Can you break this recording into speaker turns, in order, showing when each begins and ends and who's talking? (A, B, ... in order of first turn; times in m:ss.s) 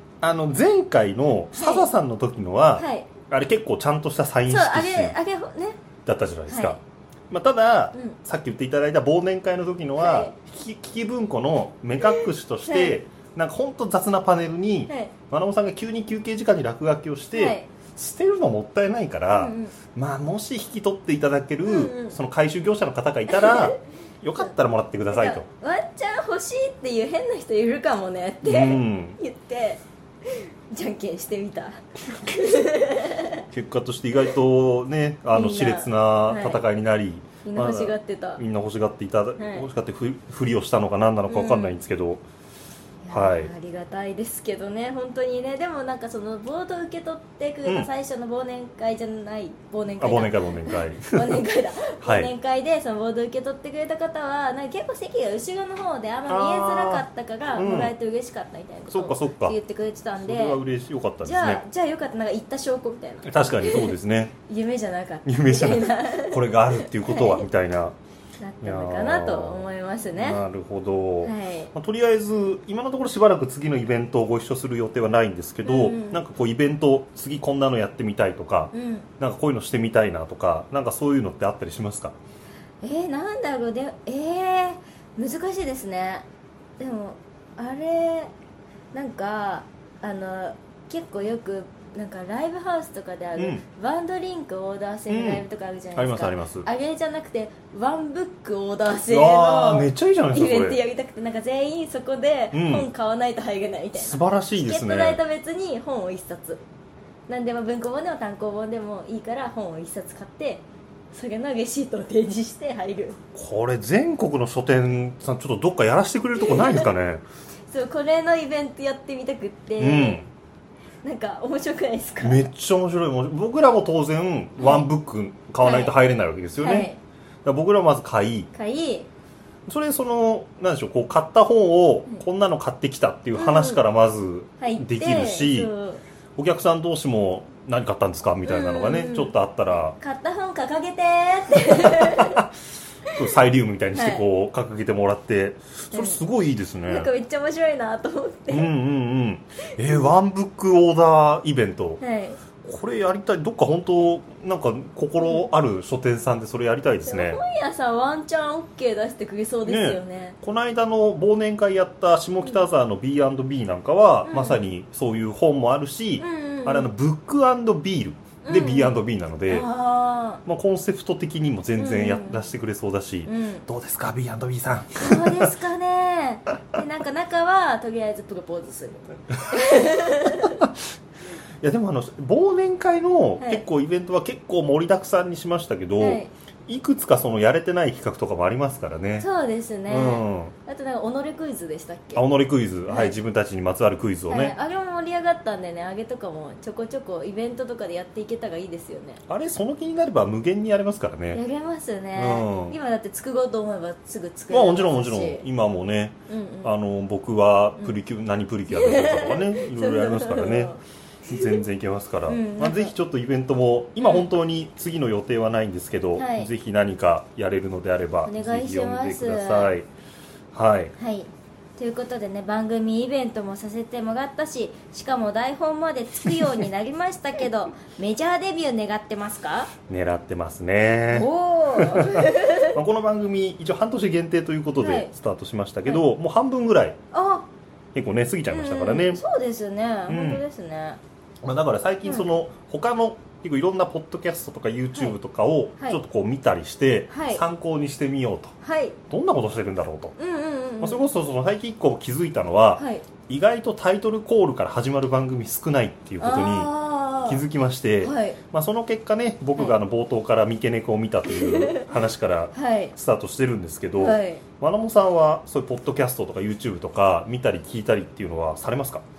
0:00.2-0:05.2 A
0:01.5-0:01.9 B
0:02.8-0:03.1 B
0:04.5-0:05.8 B
0:06.0-0:06.8 A
0:06.5-0:06.8 B
0:07.3-0:25.4 A
0:10.0-0:10.3 B
0:12.6-0:13.0 B
0:17.3-0:17.7 B
0:19.3-0:19.7 B
0:21.6-0:22.2 B
0:23.3-0:23.7 B
0:25.1-0:33.4 B
0:28.4-0:29.2 A
0:32.0-0:32.7 A
0:33.5-0:42.2 A
0:35.3-0:36.6 B
0:37.4-0:38.4 B
0:39.4-0:39.7 B
0:41.3-0:41.8 B
0:43.0-1:00.6 B
0:43.1-0:43.5 A
0:50.0-0:51.4 A
0:52.0-0:52.3 A
0:56.3-0:57.9 A
0:58.9-0:59.6 A
1:00.2-1:01.6 A
1:01.2-1:03.9 B
1:03.2-1:04.3 A
1:04.4-1:07.4 B
1:05.2-1:07.9 A
1:08.4-1:10.4 B
1:08.6-1:22.1 A
1:11.2-1:11.7 B
1:15.6-1:16.2 B
1:18.7-1:19.1 B
1:22.8-1:26.2 B
1:26.8-1:28.3 B
1:28.9-1:46.6 B
1:33.4-1:33.6 A
1:35.1-1:36.7 A
1:39.1-1:40.8 A
1:42.5-1:42.9 A
1:43.9-1:45.2 A
1:47.3-1:53.2 B
1:53.3-1:57.2 A
1:56.4-1:56.9 B
1:57.7-2:00.2 B
1:59.8-2:00.3 A
2:01.0-2:02.4 B
2:02.2-2:06.9 A
2:05.6-2:05.9 B
2:06.6-2:07.0 B
2:07.4-2:08.5 A
2:08.5-2:09.1 B
2:09.7-2:15.7 A
2:13.4-2:13.8 B
2:14.6-2:16.0 B
2:16.4-2:20.0 A
2:18.4-2:19.3 B
2:20.0-2:22.5 B
2:21.8-2:22.5 A
2:23.1-2:27.1 A
2:23.9-2:24.2 B
2:25.9-2:26.2 B
2:26.8-2:28.7 B
2:28.5-2:32.0 A
2:32.0-2:32.4 B
2:32.6-2:37.4 A
2:37.0-2:40.4 B
2:39.6-2:49.7 A
2:44.2-2:44.6 B
2:46.2-2:46.9 B
2:48.4-2:48.9 B
2:49.5-2:50.4 B
2:50.4-2:55.5 A
2:51.8-2:52.5 B
2:53.2-2:53.6 B
2:55.0-3:00.6 B
3:00.4-3:00.8 A
3:01.6-3:09.3 A
3:03.4-3:03.6 B
3:06.0-3:06.3 B
3:09.2-3:12.2 B
3:09.9-3:10.5 A
3:12.2-3:14.5 A
3:12.9-3:13.2 B
3:14.3-3:19.2 B
3:19.3-3:21.4 A
3:21.3-3:25.4 B
3:22.1-3:22.8 A
3:24.5-3:30.7 A
3:26.3-3:26.7 B
3:28.7-3:31.6 B
3:31.2-3:39.9 A
3:32.3-3:32.9 B
3:36.2-3:36.5 B
3:38.2-3:39.7 B
3:40.5-3:40.9 A
3:41.0-3:49.7 B
3:49.9-3:57.0 A
3:51.1-3:52.8 B
3:54.8-3:55.1 B
3:57.1-3:57.4 B
3:57.9-3:59.2 A
3:58.5-4:01.0 B
4:00.1-4:00.4 A
4:01.4-4:08.5 A
4:07.1-4:07.4 B
4:08.6-4:09.0 B
4:09.1-4:10.1 A
4:10.2-4:11.1 B
4:10.8-4:16.7 A
4:12.8-4:13.0 B
4:16.2-4:17.4 B
4:17.2-4:29.0 A
4:18.0-4:18.4 B
4:21.4-4:21.9 B
4:22.5-4:22.9 B
4:24.0-4:24.4 B